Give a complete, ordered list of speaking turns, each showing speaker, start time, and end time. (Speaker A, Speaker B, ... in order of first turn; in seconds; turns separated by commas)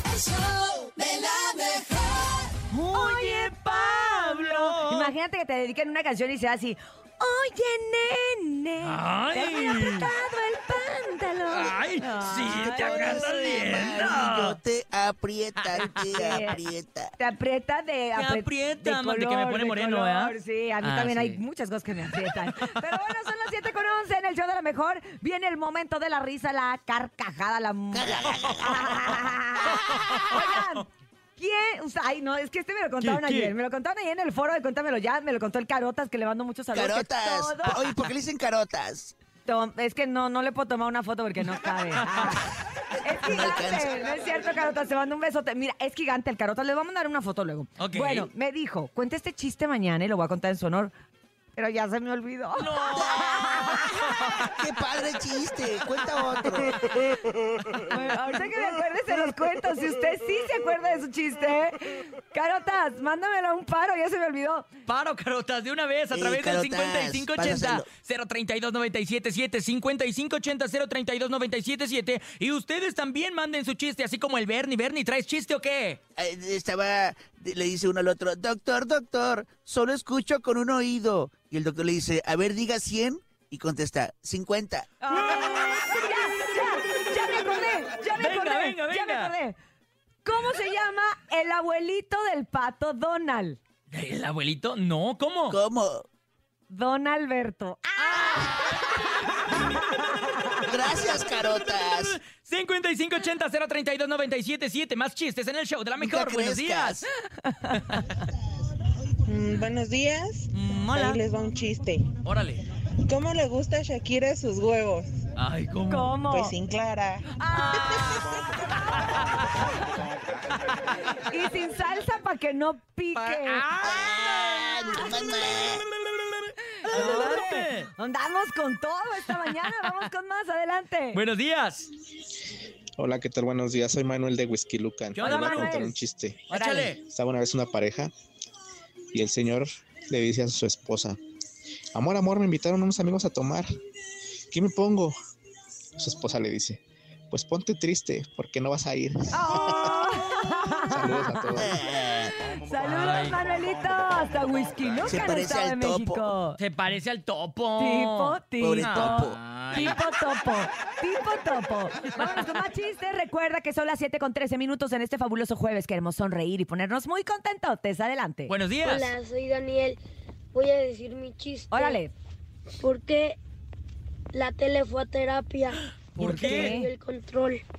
Speaker A: 2.7-5.1, Speaker B: 2.9-13.3, Speaker A: 8.8-10.1, Speaker A: 11.5-14.6, Speaker C: 12.5-17.1, Speaker A: 15.6-16.0, Speaker B: 15.8-16.6, Speaker B: 17.2-37.8, Speaker A: 18.1-21.4, Speaker C: 27.9-29.1, Speaker A: 29.7-30.8, Speaker A: 33.0-33.5, Speaker C: 36.7-39.1, Speaker B: 39.5-42.5, Speaker A: 42.0-42.4, Speaker B: 43.0-50.9, Speaker C: 43.2-44.0, Speaker A: 47.8-48.3, Speaker B: 51.5-53.9, Speaker A: 52.6-54.5, Speaker C: 53.0-53.8, Speaker C: 54.5-57.0, Speaker B: 57.9-64.7, Speaker A: 64.9-76.0, Speaker C: 66.1-67.9, Speaker C: 76.2-84.9, Speaker B: 85.0-89.6, Speaker A: 88.2-89.3, Speaker B: 90.2-93.6, Speaker A: 93.9-95.6, Speaker C: 95.5-96.0, Speaker B: 96.7-100.6, Speaker A: 98.0-98.5, Speaker C: 100.7-102.2, Speaker A: 101.1-107.0, Speaker C: 106.0-107.1, Speaker B: 107.4-108.0, Speaker A: 107.7-108.2, Speaker D: 109.3-112.1, Speaker A: 110.5-111.2, Speaker A: 112.2-112.6, Speaker D: 113.1-115.1, Speaker A: 115.4-116.2, Speaker B: 115.9-116.6, Speaker D: 116.3-117.3, Speaker B: 117.4-120.0, Speaker A: 117.5-118.4, Speaker A: 119.0-119.6, Speaker B: 121.1-123.7, Speaker A: 123.2-127.9, Speaker C: 123.8-125.8, Speaker B: 126.8-131.2, Speaker A: 131.1-131.9, Speaker E: 133.0-136.4, Speaker A: 135.2-135.9, Speaker B: 135.2-136.0, Speaker A: 136.5-137.0, Speaker B: 136.5-136.9, Speaker E: 137.0-138.1, Speaker E: 139.1-141.2, Speaker E: 141.9-143.7, Speaker E: 144.5-145.2, Speaker E: 146.0-149.7, Speaker B: 149.3-151.6, Speaker E: 150.9-151.8, Speaker C: 151.6-152.4, Speaker B: 152.4-156.6, Speaker A: 152.8-153.4, Speaker C: 155.1-156.3, Speaker A: 156.6-160.0, Speaker B: 157.8-168.5, Speaker C: 158.6-159.4, Speaker A: 168.5-169.1, Speaker F: 168.9-170.0, Speaker F: 170.6-172.0, Speaker B: 171.7-172.1, Speaker F: 172.8-173.4, Speaker F: 174.3-175.8, Speaker A: 176.1-176.8, Speaker B: 176.2-176.9, Speaker F: 176.4-177.6